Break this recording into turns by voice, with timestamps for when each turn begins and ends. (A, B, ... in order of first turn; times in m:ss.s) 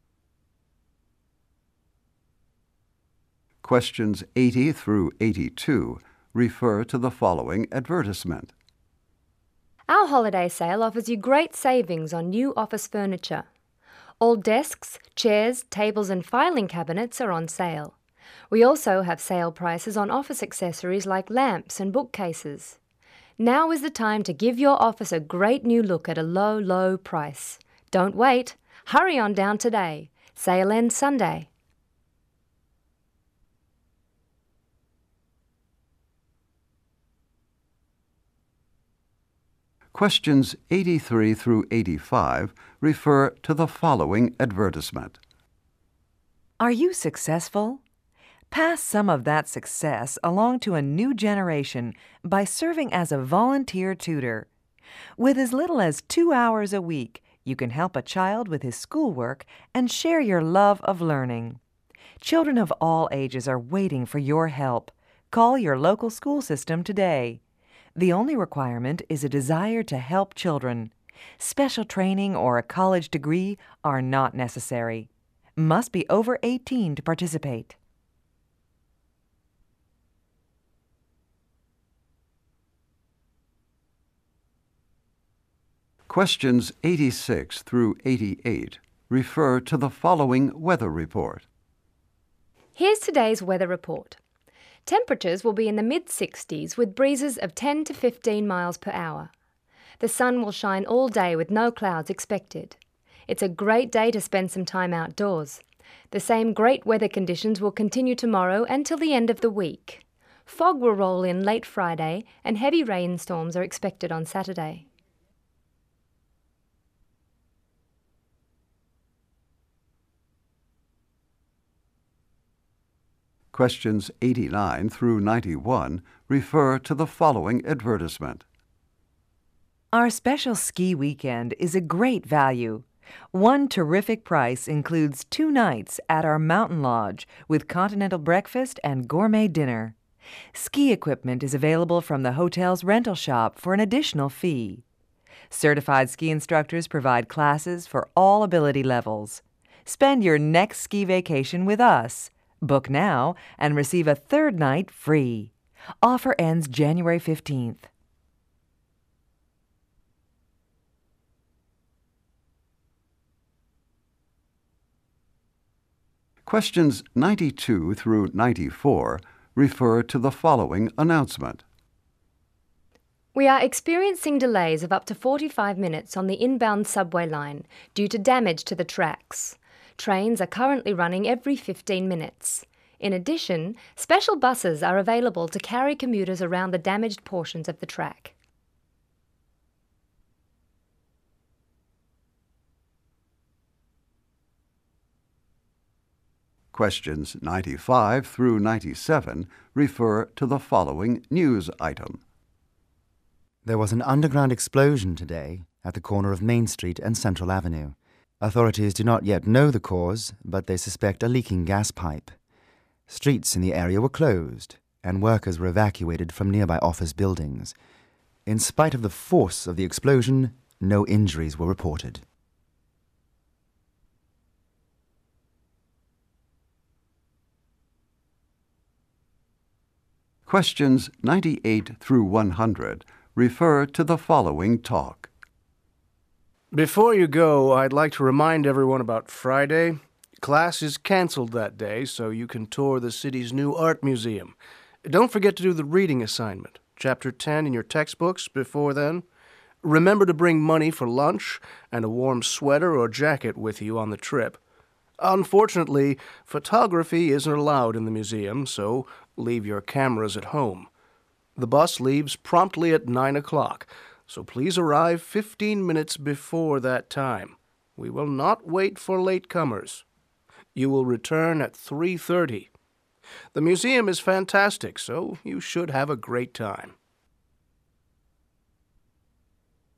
0:03.6-0:08.5 A
0:09.9-0:13.5 B
0:14.2-0:18.0 B
0:18.5-0:22.8 B
0:23.4-0:31.5 B
0:39.9-0:45.2 A
0:46.6-0:47.8 C
0:48.5-0:54.5 C
0:55.2-1:01.6 C
1:02.2-1:07.4 C
1:08.0-1:17.8 C
1:26.1-1:31.4 A
1:32.8-1:34.2 B
1:34.9-1:39.3 B
1:40.0-1:42.8 B
1:43.3-1:54.8 B
2:03.5-2:08.4 A
2:09.9-2:20.0 C
2:20.5-2:24.8 C
2:25.5-2:37.9 C
2:46.5-2:51.6 A
2:53.4-3:08.3 B
3:16.7-3:22.2 A
3:23.6-3:32.3 D
3:33.1-3:37.7 D
3:38.5-3:42.2 D
3:50.5-3:55.3 A
3:56.7-4:09.2 E
4:09.8-4:14.6 E
4:15.2-4:20.9 E
4:21.6-4:30.0 E
4:30.8-4:32.7 E
4:33.5-4:37.0 E